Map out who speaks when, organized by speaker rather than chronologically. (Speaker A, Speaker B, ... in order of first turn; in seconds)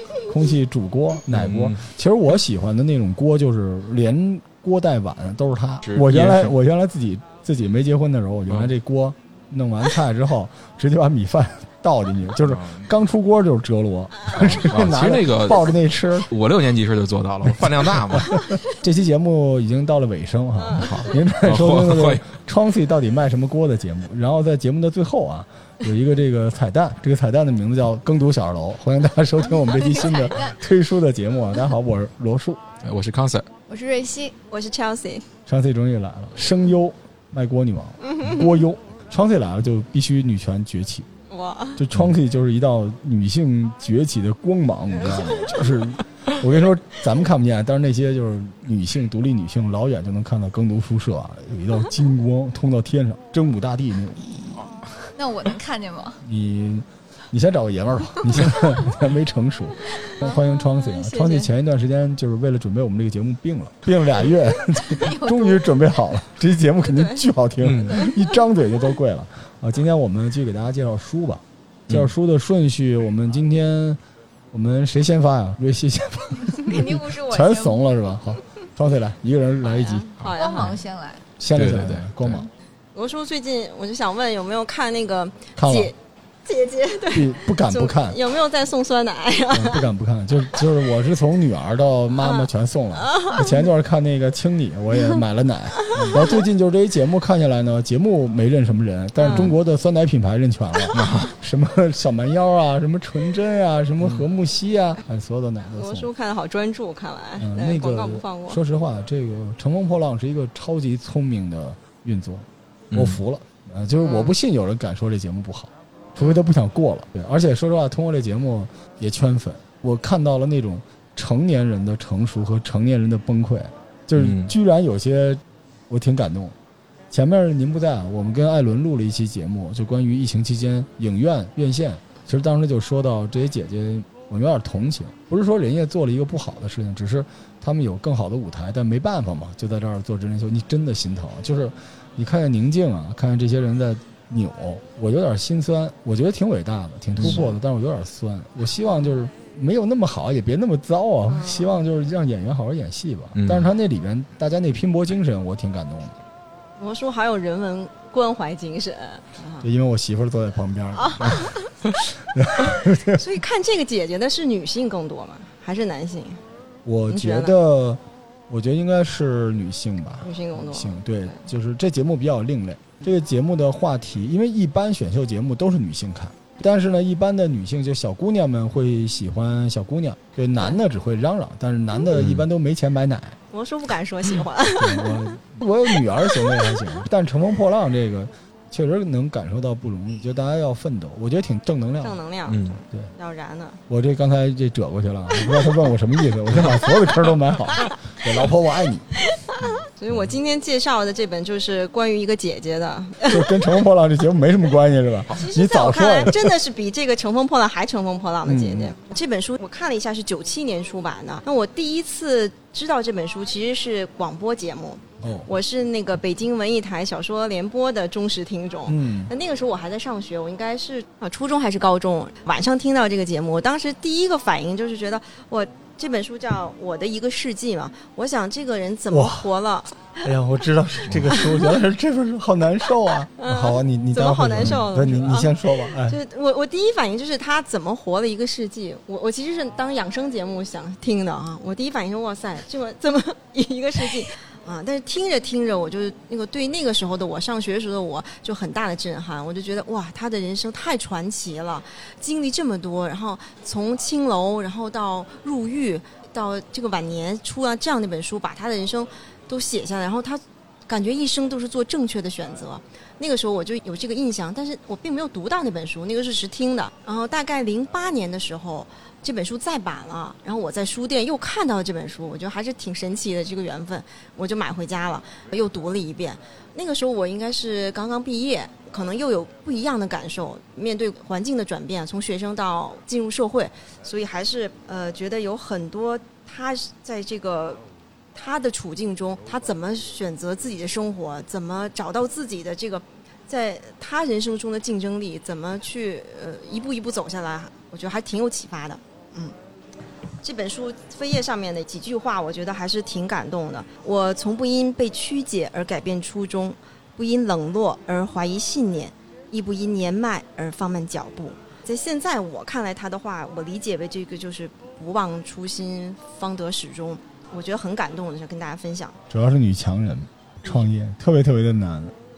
Speaker A: 0.2-16.3, 17.5-32.6, 35.5-41.1, 41.8-54.3, 56.2-74.0, 74.5-80.1, 81.4-82.5, 85.5-85.9, 87.1-88.2, 89.5-106.1, 107.4-126.5, 127.1-156.2, 159.6-161.6, 162.2-163.2, 166.8-183.4, 184.8-192.2, 193.9-199.1, 203.2-206.5, 208.4-208.9, 215.2-215.5, 218.9-219.3, 229.1-229.5, 230.2-236.2, 319.3-322.1
Speaker B: 1.3-1.9, 5.8-6.6, 12.4-12.9, 14.3-18.4, 20.8-22.3, 32.8-33.5, 67.6-68.0, 80.2-80.8, 81.5-82.4, 100.9-101.3, 104.0-104.2, 112.9-113.2, 124.2-124.5, 153.3-153.7, 182.2-182.4, 192.5-192.8
Speaker C: 20.6-21.2, 34.5-35.2, 38.0-38.4, 41.3-41.8, 45.1-45.6, 60.2-61.5, 66.8-67.2, 68.0-68.2, 79.7-80.7, 82.9-89.8, 92.2-92.5, 93.0-93.6, 96.0-96.4, 99.2-99.5, 105.8-108.6, 114.0-114.4, 147.2-147.6, 151.3-151.8, 156.8-159.7, 161.0-161.7, 162.6-166.4, 167.1-167.5, 170.2-171.4, 183.5-185.3, 186.2-186.6, 192.0-193.8, 199.2-203.6, 205.3-230.2, 233.4-287.8, 288.3-299.5, 300.4-319.2
Speaker D: 29.7-30.6, 33.7-34.3, 55.1-56.2, 64.8-66.0, 76.6-77.8, 80.3-81.2